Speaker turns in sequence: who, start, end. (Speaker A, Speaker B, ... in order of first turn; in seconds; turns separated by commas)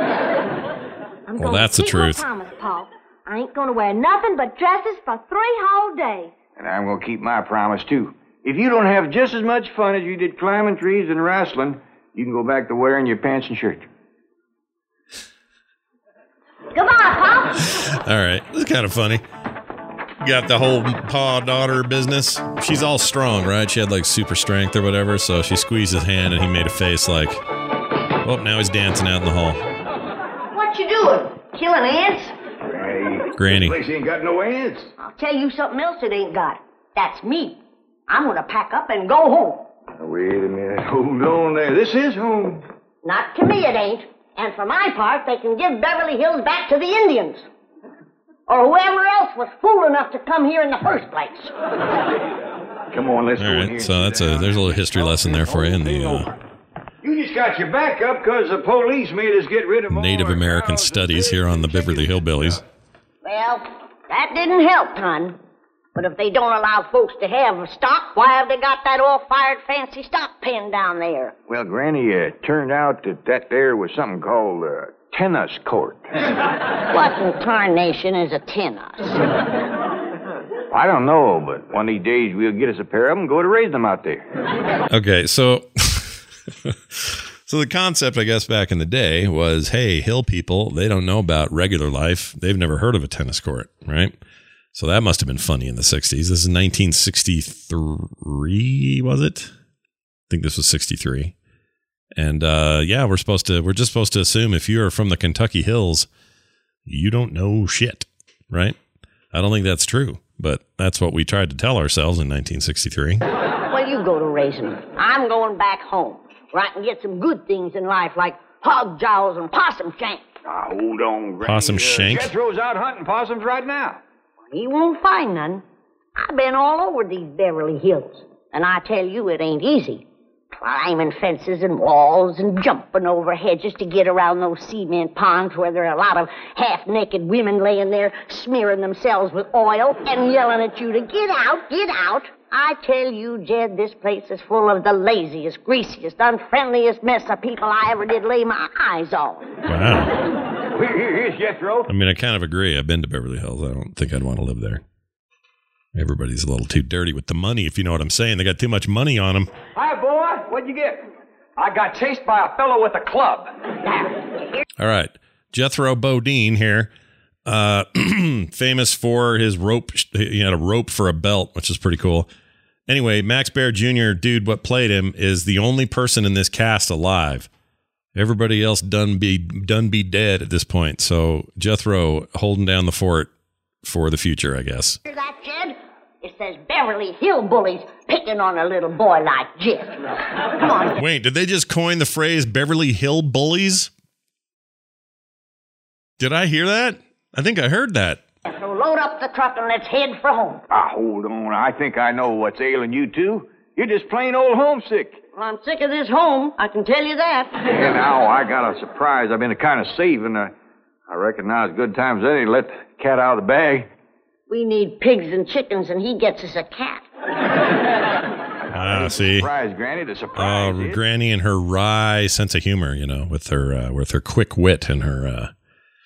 Speaker A: 1.3-6.3, Speaker B: 1.4-2.2, Speaker C: 6.6-13.9, Speaker A: 16.7-17.7, Speaker B: 17.9-19.2, Speaker B: 20.2-27.4, Speaker B: 28.2-29.6, Speaker D: 30.5-32.3, Speaker C: 32.7-34.9, Speaker B: 33.4-33.8, Speaker D: 35.0-39.7, Speaker C: 40.0-42.6, Speaker D: 43.0-47.5, Speaker D: 48.5-51.5, Speaker C: 52.9-56.4, Speaker B: 53.4-56.3, Speaker C: 57.0-62.6, Speaker B: 59.9-62.6, Speaker D: 63.2-65.4, Speaker D: 66.0-71.3, Speaker C: 71.5-76.1, Speaker D: 76.9-79.2, Speaker C: 80.7-84.3, Speaker B: 84.9-94.1, Speaker B: 94.7-99.5, Speaker B: 100.3-101.3, Speaker B: 102.2-106.1, Speaker B: 106.9-108.8, Speaker B: 109.3-113.2, Speaker D: 113.7-120.2, Speaker C: 120.5-124.0, Speaker B: 121.4-122.3, Speaker D: 124.5-125.6, Speaker D: 126.2-149.5, Speaker B: 149.7-150.1, Speaker C: 150.7-151.9, Speaker B: 151.9-154.8, Speaker B: 155.9-159.5, Speaker E: 159.8-161.0, Speaker E: 161.6-163.5, Speaker D: 163.8-164.6, Speaker B: 164.8-166.9, Speaker B: 167.5-172.3, Speaker B: 172.9-177.5, Speaker B: 178.2-183.3, Speaker B: 183.8-185.0, Speaker D: 185.1-190.1, Speaker D: 190.6-190.9, Speaker B: 190.9-193.9, Speaker B: 196.2-198.2, Speaker D: 198.5-200.6, Speaker C: 200.7-205.2, Speaker D: 205.3-207.6, Speaker C: 207.7-210.6, Speaker C: 211.1-213.9, Speaker D: 214.5-217.1, Speaker C: 218.7-221.0, Speaker B: 218.7-219.5, Speaker B: 220.4-225.5